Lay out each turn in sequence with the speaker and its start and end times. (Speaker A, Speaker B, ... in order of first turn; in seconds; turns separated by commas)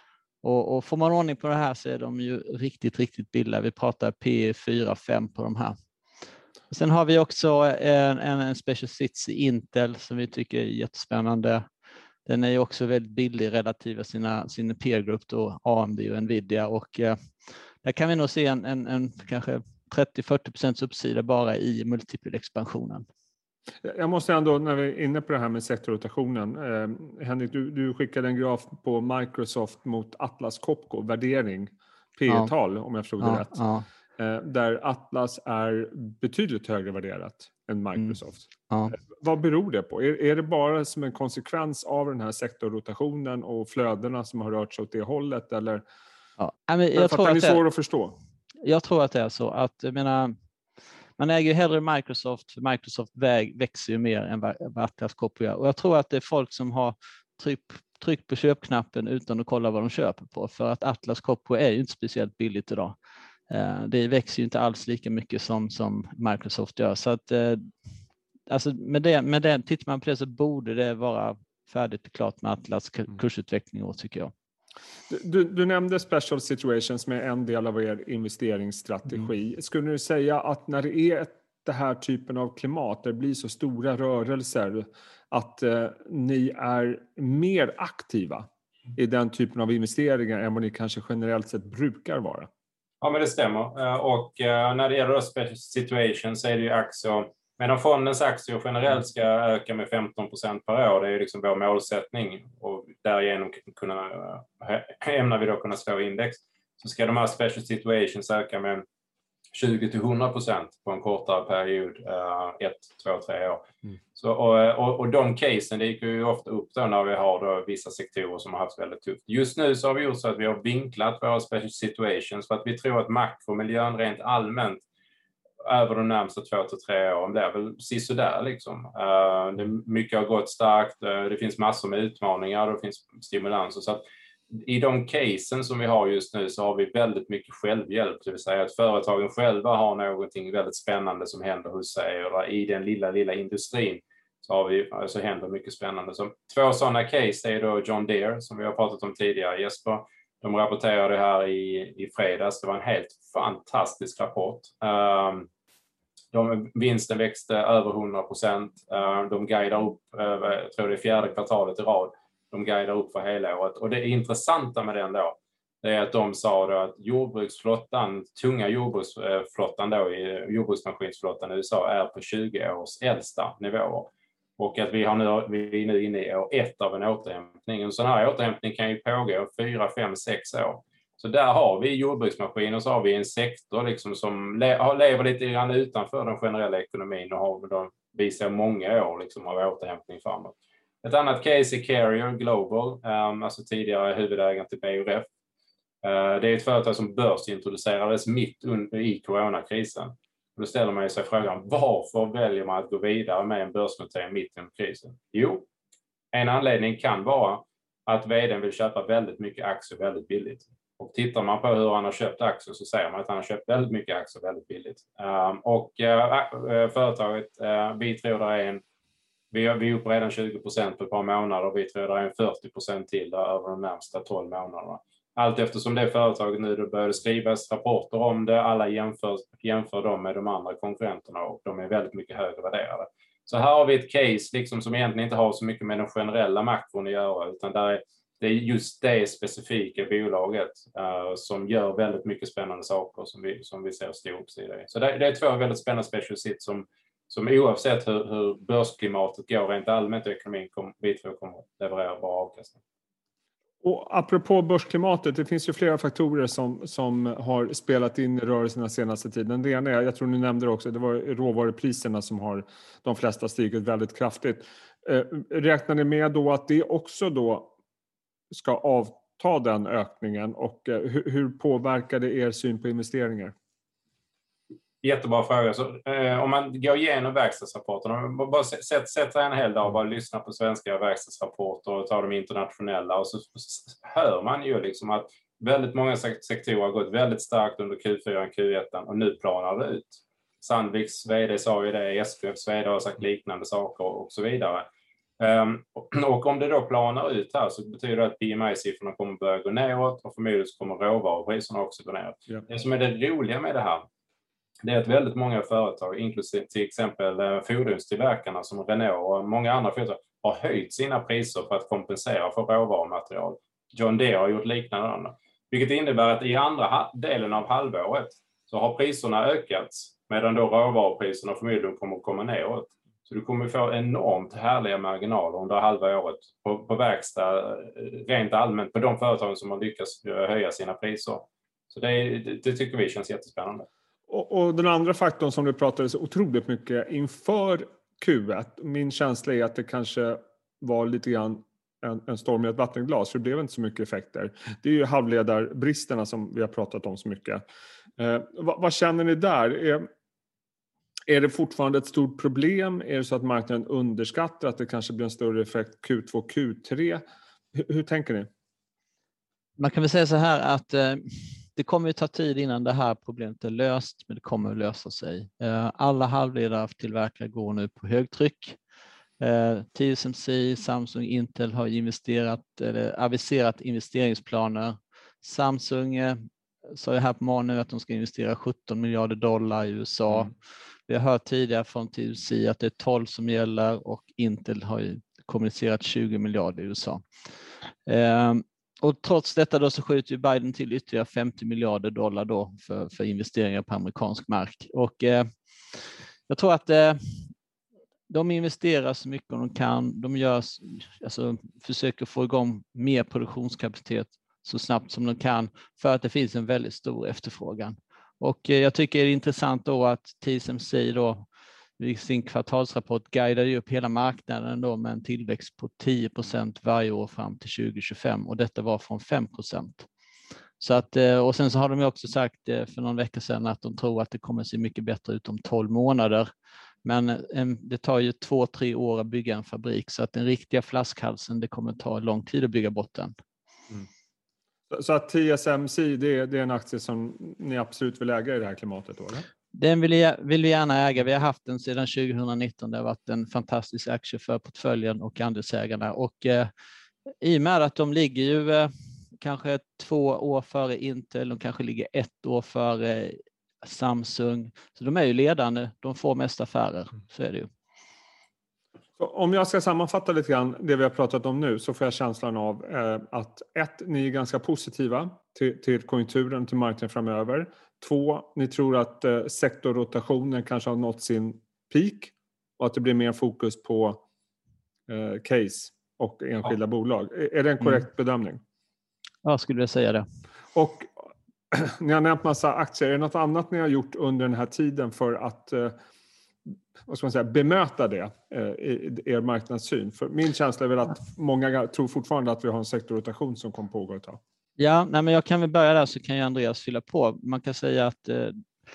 Speaker A: 0.4-5.8, Speaker A: 6.7-11.6, Speaker A: 12.3-17.2, Speaker A: 17.8-23.0, Speaker B: 23.8-33.6, Speaker A: 32.3-32.5, Speaker A: 33.2-33.9, Speaker B: 34.2-45.8, Speaker A: 38.7-39.0, Speaker A: 46.4-47.7, Speaker B: 46.9-48.1, Speaker A: 48.6-50.3, Speaker A: 51.2-63.0, Speaker A: 63.5-67.7, Speaker A: 68.5-74.3, Speaker B: 75.1-92.5, Speaker C: 93.0-108.8, Speaker C: 109.5-124.8, Speaker C: 125.7-155.5, Speaker C: 156.3-195.3, Speaker C: 196.0-205.7, Speaker C: 206.3-218.8, Speaker C: 219.5-252.8, Speaker B: 253.8-267.7, Speaker B: 268.5-273.5, Speaker C: 275.0-294.9, Speaker C: 295.4-304.0, Speaker C: 304.8-333.9, Speaker B: 334.3-347.6, Speaker B: 348.2-350.1, Speaker B: 351.3-357.2, Speaker B: 357.7-358.5, Speaker A: 359.8-368.8, Speaker A: 369.4-376.4, Speaker A: 376.9-380.6, Speaker A: 381.1-387.2, Speaker A: 388.1-397.5, Speaker A: 398.3-411.5, Speaker A: 412.0-420.1, Speaker A: 420.8-426.5, Speaker A: 427.1-433.3, Speaker B: 434.9-439.5, Speaker A: 439.7-446.7, Speaker A: 447.4-457.7, Speaker B: 459.2-474.2, Speaker B: 475.1-478.6, Speaker A: 477.8-478.1, Speaker A: 479.4-480.2, Speaker B: 480.8-481.1, Speaker B: 481.7-485.9, Speaker B: 487.1-494.4, Speaker A: 494.8-498.6